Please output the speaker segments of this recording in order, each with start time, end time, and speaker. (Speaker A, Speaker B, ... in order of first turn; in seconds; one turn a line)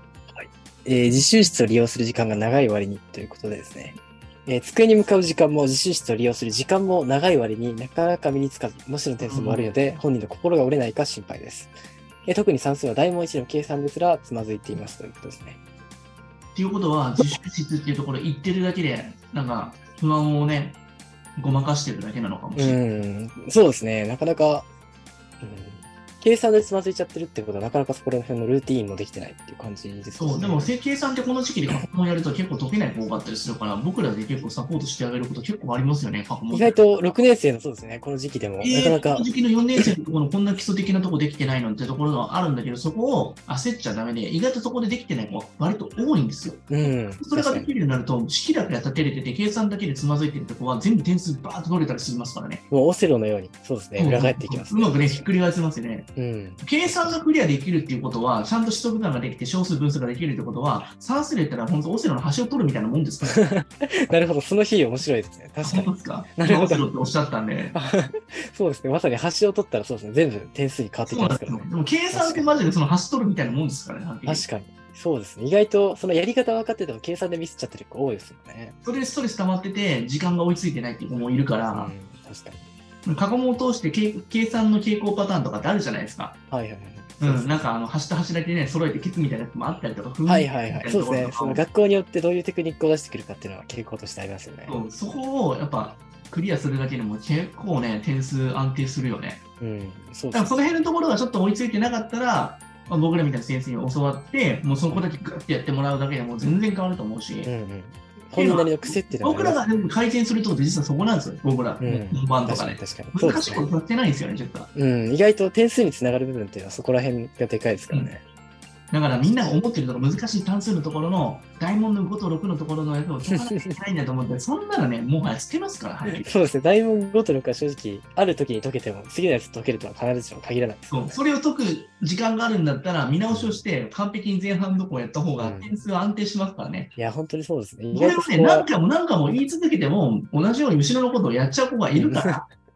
Speaker A: 0.3-11.7
Speaker B: 9.2-9.7
Speaker A: 12.3-15.6
Speaker B: 16.6-20.8
Speaker B: 21.4-22.8
Speaker A: 22.6-24.7
Speaker A: 25.4-30.7
Speaker B: 30.2-36.8
Speaker A: 36.5-39.9
Speaker B: 38.6-52.6
Speaker A: 46.7-47.7
Speaker A: 52.7-55.3
Speaker B: 54.0-56.1
Speaker A: 56.2-57.2
Speaker B: 56.6-63.4
Speaker A: 63.3-66.9
Speaker B: 65.6-67.8
Speaker A: 67.7-72.7
Speaker B: 71.1-74.5
Speaker A: 74.2-78.8
Speaker B: 78.8-81.9
Speaker A: 81.7-82.7
Speaker B: 83.0-86.3
Speaker A: 86.5-87.7
Speaker B: 87.2-91.7
Speaker A: 90.3-94.8
Speaker B: 94.7-99.4
Speaker A: 99.6-100.8
Speaker B: 100.3-107.5
Speaker A: 107.5-109.9
Speaker B: 108.3-114.7
Speaker A: 111.8-113.7
Speaker A: 114.7-118.2
Speaker B: 118.9-126.3
Speaker A: 123.3-123.8
Speaker A: 126.0-131.2
Speaker B: 130.9-136.9
Speaker A: 133.3-133.6
Speaker A: 135.4-135.8
Speaker A: 137.0-138.7
Speaker B: 137.9-142.5
Speaker A: 141.9-142.4